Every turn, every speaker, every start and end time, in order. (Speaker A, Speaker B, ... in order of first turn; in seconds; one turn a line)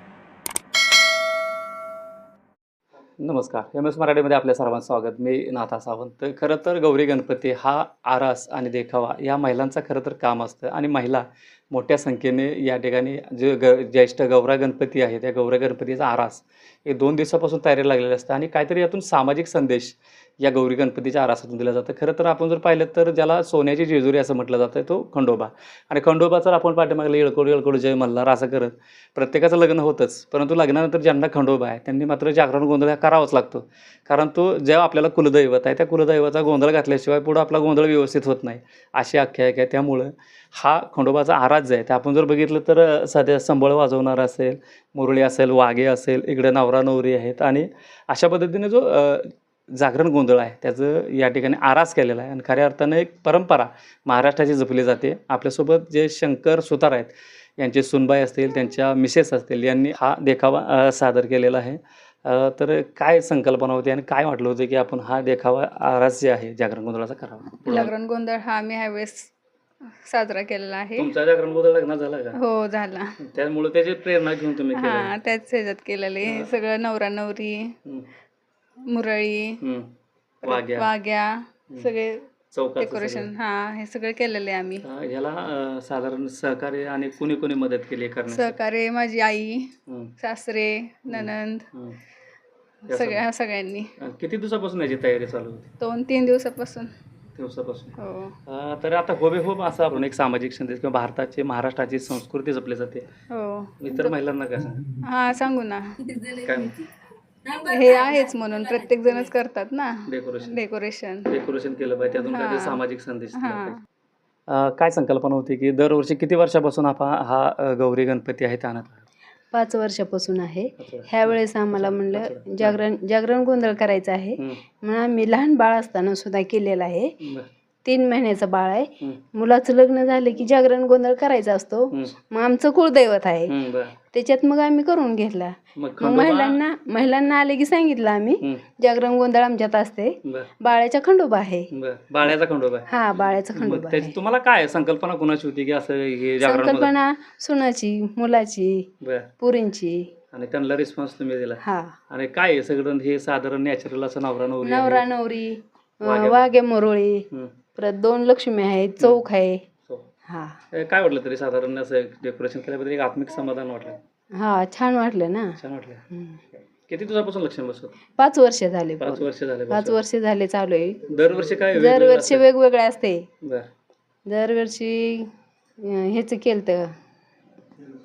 Speaker A: 3.2-67.9
Speaker B: 67.7-69.3
Speaker B: 69.9-71.1
Speaker A: 71.0-72.4
Speaker B: 72.3-73.2
Speaker A: 73.2-75.1
Speaker B: 74.7-77.7
Speaker A: 76.2-76.5
Speaker B: 78.8-79.6
Speaker A: 79.6-79.9
Speaker A: 80.4-80.9
Speaker B: 80.4-84.8
Speaker A: 82.5-83.3
Speaker A: 84.8-88.6
Speaker B: 88.3-91.7
Speaker A: 89.9-90.1
Speaker A: 91.1-92.0
Speaker B: 92.9-93.9
Speaker A: 92.9-93.2
Speaker A: 94.0-95.7
Speaker B: 95.8-96.9
Speaker A: 97.3-103.1
Speaker B: 98.0-98.3
Speaker B: 103.3-104.1
Speaker A: 103.8-104.9
Speaker B: 105.0-106.2
Speaker A: 106.3-106.8
Speaker B: 107.5-111.3
Speaker A: 110.1-110.6
Speaker A: 111.3-113.8
Speaker B: 112.2-112.8
Speaker B: 113.3-113.8
Speaker A: 114.5-119.1
Speaker C: 119.5-127.2
Speaker A: 120.8-122.8
Speaker A: 127.2-127.5
Speaker C: 127.8-133.5
Speaker A: 133.5-133.9
Speaker C: 134.1-141.7
Speaker A: 135.8-136.6
Speaker A: 140.2-140.5
Speaker A: 141.7-142.9
Speaker C: 142.9-144.1
Speaker A: 143.5-146.9
Speaker C: 146.4-148.9
Speaker A: 149.0-149.3
Speaker C: 149.4-150.1
Speaker A: 150.3-155.1
Speaker C: 151.6-151.9
Speaker C: 154.6-159.6
Speaker A: 156.0-156.5
Speaker C: 160.3-160.6
Speaker A: 160.7-164.0
Speaker C: 164.3-165.6
Speaker A: 165.6-166.0
Speaker C: 166.1-166.4
Speaker A: 166.8-167.9
Speaker C: 168.2-171.0
Speaker A: 169.0-170.0
Speaker A: 171.0-172.4
Speaker C: 171.7-173.2
Speaker A: 173.4-173.7
Speaker C: 174.3-175.3
Speaker C: 175.8-176.9